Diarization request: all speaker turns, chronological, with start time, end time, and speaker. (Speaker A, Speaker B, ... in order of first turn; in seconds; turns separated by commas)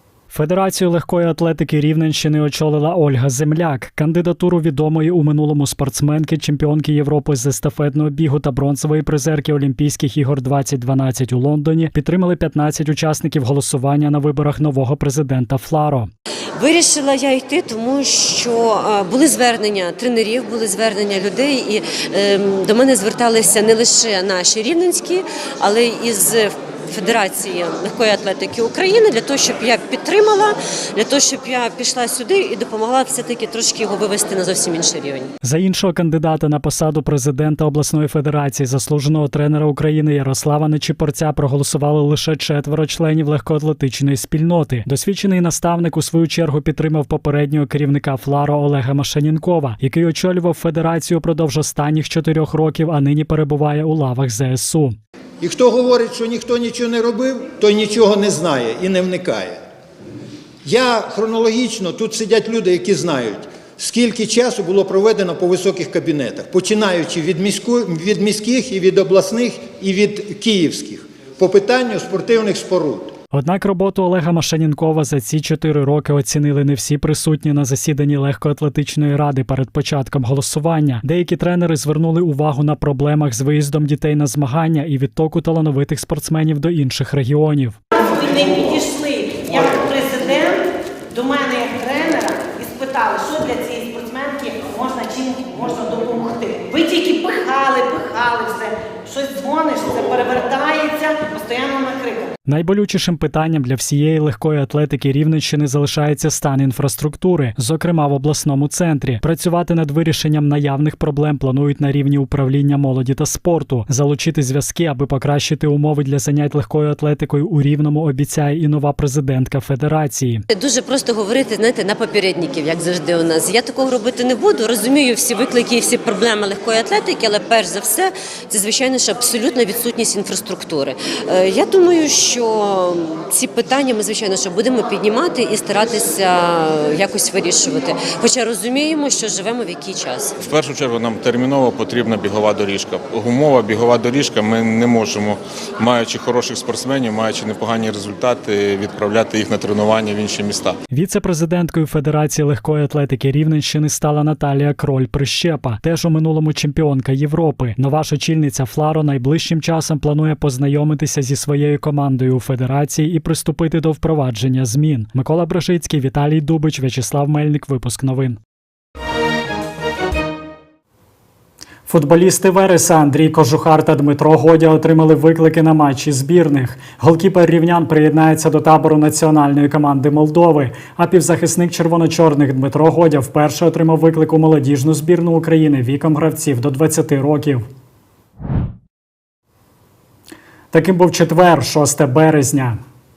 Speaker A: 0.3-16.1, Speaker B: 16.6-35.3, Speaker A: 35.4-55.0, Speaker C: 55.4-59.6, Speaker C: 60.6-73.1, Speaker A: 73.3-87.8, Speaker D: 88.0-102.3, Speaker A: 102.5-120.4, Speaker B: 120.5-140.3, Speaker E: 140.4-150.8, Speaker A: 150.9-168.4, Speaker A: 171.9-187.7, Speaker A: 190.7-192.8